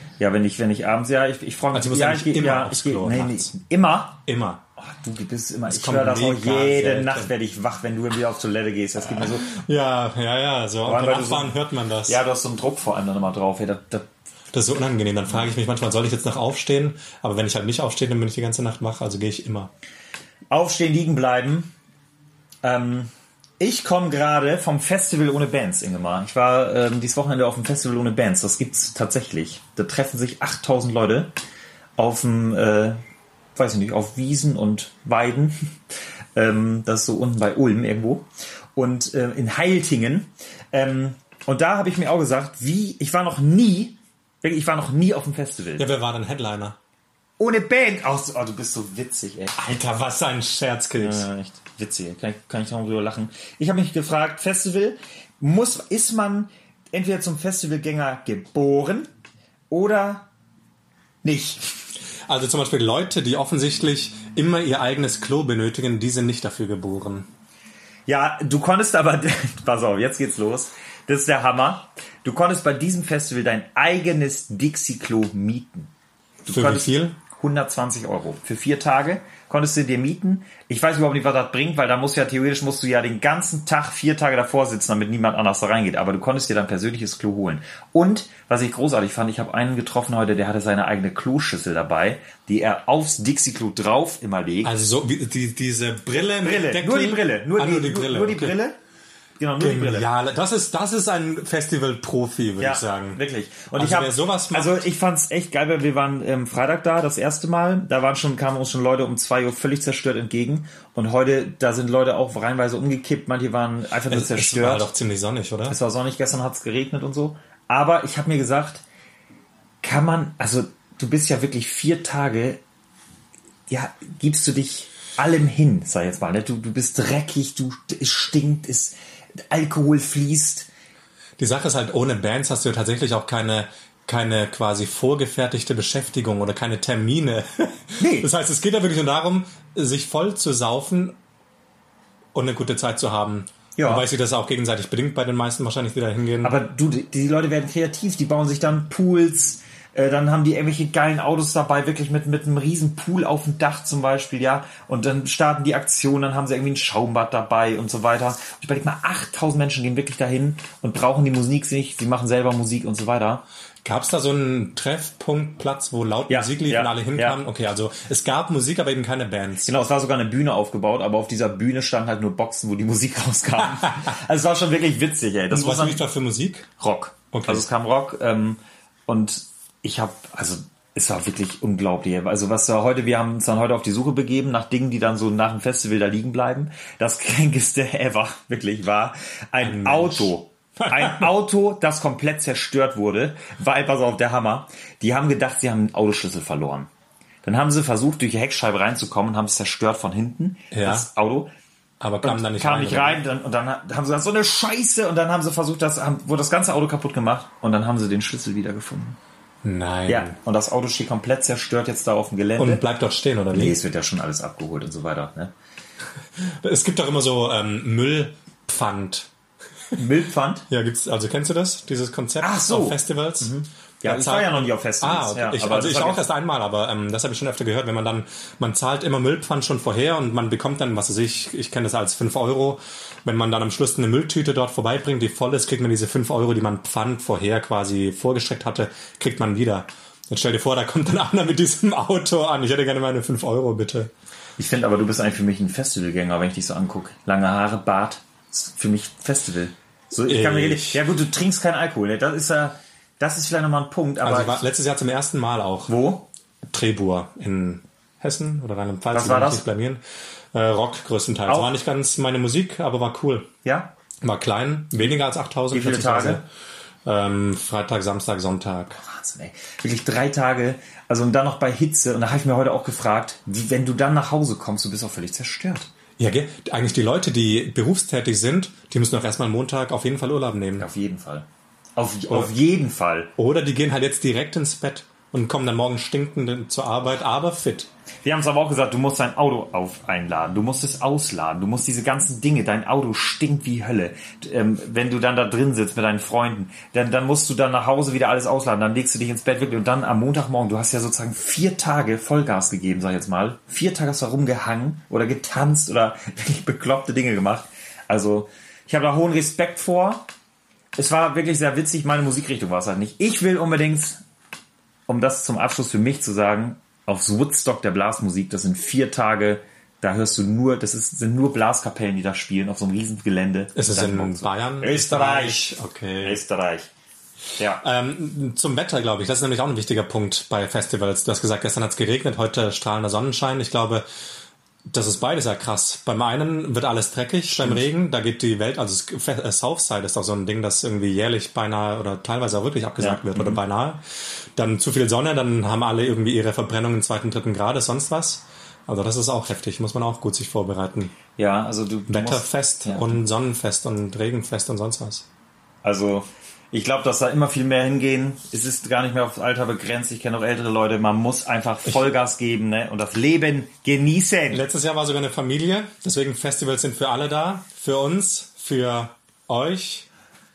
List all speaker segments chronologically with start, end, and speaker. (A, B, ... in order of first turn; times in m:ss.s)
0:00.2-0:04.2 A
0:01.7-0:03.5 B
0:04.3-0:04.6 B
0:04.8-0:09.5 A
0:05.7-0:07.3 B
0:09.4-0:12.2 B
0:10.8-0:14.1 A
0:14.5-0:19.7 B
0:20.5-0:21.7 A
0:22.6-0:31.4 A
0:32.0-0:33.0 A
0:33.6-0:35.7 A
0:36.4-0:45.9 A
0:45.8-0:46.8 B
0:47.4-0:49.6 A
0:49.6-0:51.3 B
0:51.0-0:59.1 A
0:59.7-1:00.3 A
1:01.2-1:01.7 A
1:02.3-1:07.3 B
1:08.1-1:15.9 A
1:16.5-1:17.2 B
1:16.5-1:34.8 A
1:34.6-1:38.6 B
1:36.4-1:38.8 A
1:39.4-1:40.1 A
1:39.6-1:43.2 B
1:42.6-1:54.9 A
1:43.8-1:44.8 B
1:54.1-1:55.8 B
1:55.7-1:58.8 A
1:59.8-2:02.6 A
2:03.7-2:09.0 A
2:09.5-2:10.7 A
2:11.4-2:21.2 B
2:18.0-2:18.3 A
2:22.3-2:26.6 B
2:23.8-2:24.1 A
2:26.4-2:43.4 A
2:43.8-2:49.8 B
2:46.3-2:47.4 A
2:49.6-2:56.1 A
2:55.5-2:56.7 B
2:56.8-3:16.9 A
2:57.3-2:57.6 B
3:09.6-3:11.3 B
3:17.4-3:21.5 A
3:20.7-3:21.1 B
3:22.0-3:23.2 B
3:22.2-3:29.2 A
3:29.6-3:30.3 B
3:30.1-3:32.8 A
3:32.6-3:33.8 B
3:33.5-3:35.5 A
3:36.4-3:39.3 B
3:40.0-3:40.7 A
3:40.7-4:04.1 B
3:42.4-3:46.2 A
4:04.6-4:14.6 A
4:10.2-4:11.0 B
4:14.2-4:16.0 B
4:15.9-4:16.3 A
4:16.7-4:20.0 B
4:19.1-4:19.7 A
4:20.5-4:23.5 B
4:21.5-4:21.7 A
4:23.6-4:23.9 A
4:24.2-4:26.4 B
4:25.7-4:26.4 A
4:27.0-4:29.0 B
4:29.0-4:35.9 A
4:36.2-4:40.9 B
4:40.8-4:43.3 A
4:42.3-4:42.6 B
4:43.4-4:47.9 B
4:48.2-5:10.3 A
5:11.0-5:14.2 A
5:15.1-5:26.9 A
5:23.8-5:26.4 B
5:27.6-5:27.8 A
5:27.8-5:34.1 B
5:34.9-5:44.0 B
5:37.5-5:37.9 A
5:43.0-5:43.6 A
5:44.6-5:51.1 B
5:51.4-5:53.2 A
5:52.1-5:55.3 B
5:55.8-6:04.6 A
6:01.9-6:02.1 B
6:04.5-6:10.1 B